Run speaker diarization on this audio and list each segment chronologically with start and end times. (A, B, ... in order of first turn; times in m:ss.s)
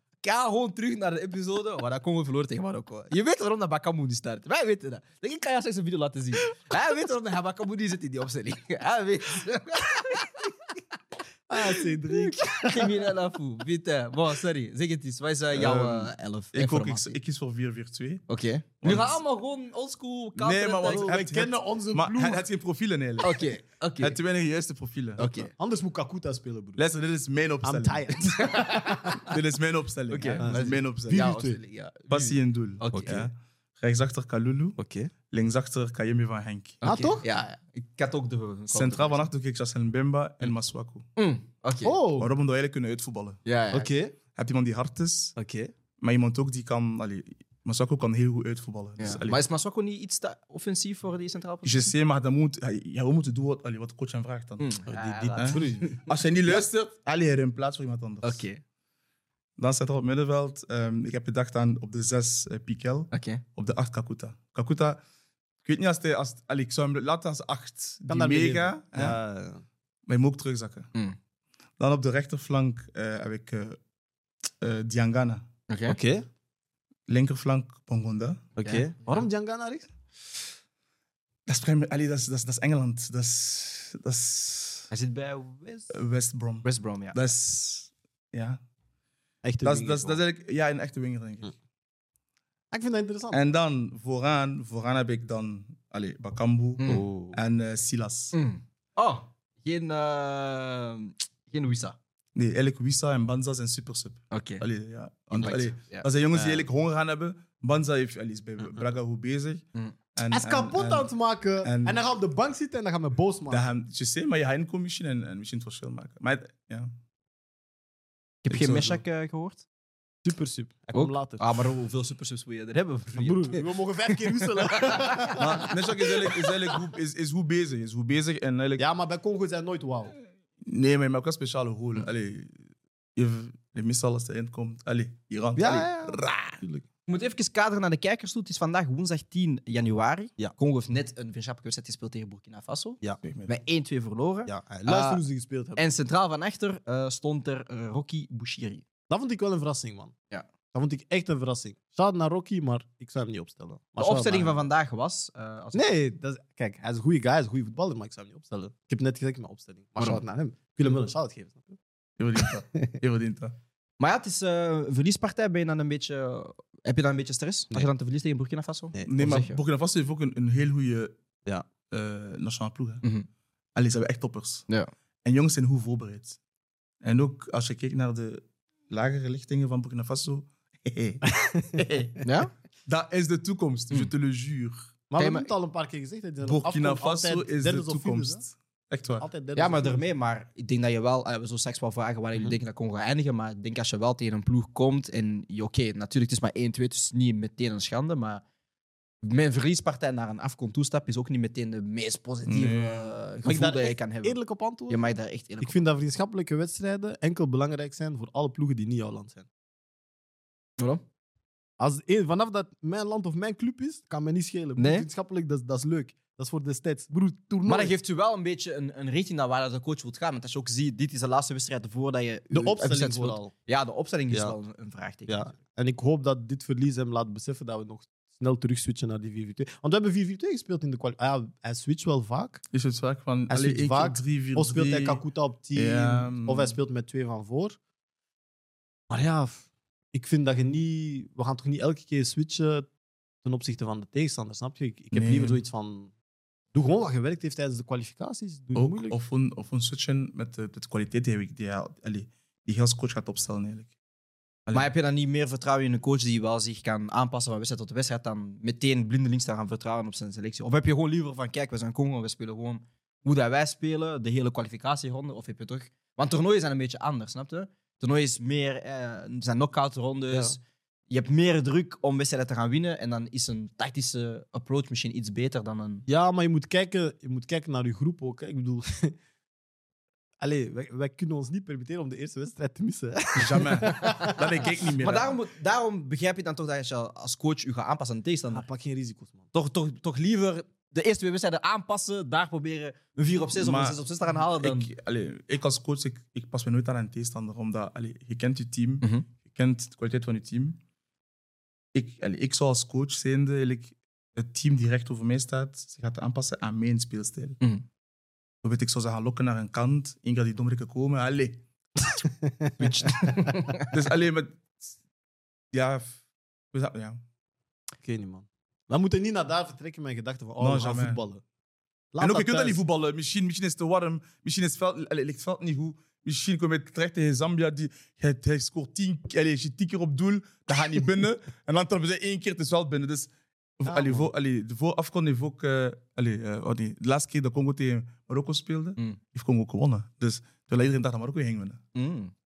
0:00.2-0:10.5 A
0:11.5-0:13.1 B
0:11.6-0:17.1 A
0:15.5-0:18.2 C
0:18.3-0:21.1 A
0:18.8-0:19.2 C
0:20.4-0:25.3 C
0:20.8-0:22.4 B
0:23.2-0:24.2 A
0:25.2-0:25.5 A
0:25.5-0:26.8 B
0:26.8-0:28.3 C
0:27.6-0:29.3 B
0:28.4-0:29.2 A
0:29.2-0:31.4 C
0:30.1-0:33.3 A
0:30.4-0:31.6 B
0:32.1-0:34.8 C
0:32.9-0:33.2 B
0:34.8-0:35.1 B
0:35.3-0:36.8 C
0:36.8-0:39.2 A
0:36.8-0:37.2 B
0:38.7-0:41.0 C
0:41.2-0:42.0 A
0:41.8-0:42.3 B
0:42.2-0:43.4 C
0:43.5-0:43.9 A
0:43.7-0:44.2 B
0:44.4-0:45.4 C
0:45.4-0:45.7 B
0:46.0-0:49.4 C
0:49.0-0:51.9 A
0:51.6-0:54.7 C
0:54.6-0:56.6 A
0:54.9-0:56.0 B
0:55.4-0:58.4 C
0:58.2-0:58.6 A
0:59.6-1:05.0 C
1:03.1-1:03.4 A
1:05.6-1:09.2 C
1:08.1-1:09.6 B
1:10.1-1:10.9 C
1:11.8-1:13.8 C
1:14.6-1:15.5 C
1:15.7-1:16.0 A
1:15.9-1:16.2 B
1:17.1-1:18.5 C
1:18.6-1:19.9 B
1:21.5-1:24.9 C
1:24.9-1:26.0 A
1:25.9-1:28.6 C
1:26.6-1:27.3 A
1:29.4-1:30.2 B
1:29.6-1:31.5 C
1:32.7-1:33.4 B
1:33.3-1:38.4 C
1:36.9-1:37.4 B
1:38.3-1:42.0 A
1:42.4-1:49.6 C
1:44.3-1:44.6 A
1:45.3-1:46.1 A
1:50.2-1:51.1 C
1:50.3-1:53.6 B
1:51.6-1:52.0 C
1:53.5-1:56.9 C
1:58.4-1:59.6 A
1:58.5-1:59.0 C
2:00.2-2:01.4 B
2:00.9-2:06.5 A
2:03.1-2:05.7 B
2:05.4-2:08.8 C
2:08.8-2:10.1 B
2:10.6-2:12.6 C
2:13.2-2:16.6 C
2:15.6-2:16.8 B
2:17.1-2:25.2 A
2:23.2-2:23.5 C
2:24.5-2:25.8 B
2:25.8-2:28.8 A
2:29.1-2:30.1 B
2:30.7-2:34.6 B
2:34.0-2:35.8 A
2:35.7-2:41.8 B
2:42.2-2:43.6 C
2:44.0-2:49.6 A
2:48.9-2:49.3 B
2:49.1-2:51.1 C
2:51.9-2:53.0 C
2:53.8-2:54.7 C
2:55.2-2:56.4 C
2:57.0-3:02.2 C
3:01.3-3:01.9 B
3:02.2-3:02.5 A
3:02.9-3:04.9 C
3:05.1-3:08.4 B
3:05.2-3:05.5 A
3:06.4-3:09.2 C
3:09.2-3:10.0 B
3:09.6-3:18.4 A
3:19.2-3:24.4 A
3:22.5-3:23.1 C
3:23.4-3:25.0 B
3:24.9-3:25.8 A
3:25.6-3:29.5 B
3:31.8-3:37.9 B
3:34.8-3:35.1 A
3:37.7-3:45.5 A
3:42.5-3:43.5 B
3:45.3-3:52.6 B
3:52.7-3:55.2 C
3:53.5-3:57.8 B
3:55.8-3:56.8 C
3:59.1-4:02.9 B
4:03.4-4:06.1 B
4:05.1-4:05.6 C
4:06.7-4:09.2 B
4:08.8-4:13.9 C
4:14.7-4:36.0 A
4:36.1-4:39.2 B
4:40.4-4:44.7 B
4:43.4-4:45.4 C
4:45.0-4:48.6 A
4:48.5-4:49.5 B
4:49.5-4:54.9 A
4:53.6-5:00.8 C
4:59.0-4:59.2 A
5:01.9-5:07.6 C
5:08.6-5:11.6 C
5:12.2-5:13.3 B
5:12.8-5:13.9 A
5:13.8-5:14.9 C
5:15.7-5:16.2 C
5:16.7-5:17.2 C
5:18.0-5:21.4 B
5:20.6-5:21.2 C
5:22.1-5:22.8 B
5:22.2-5:41.8 C
5:33.9-5:34.3 B
5:42.0-5:42.3 A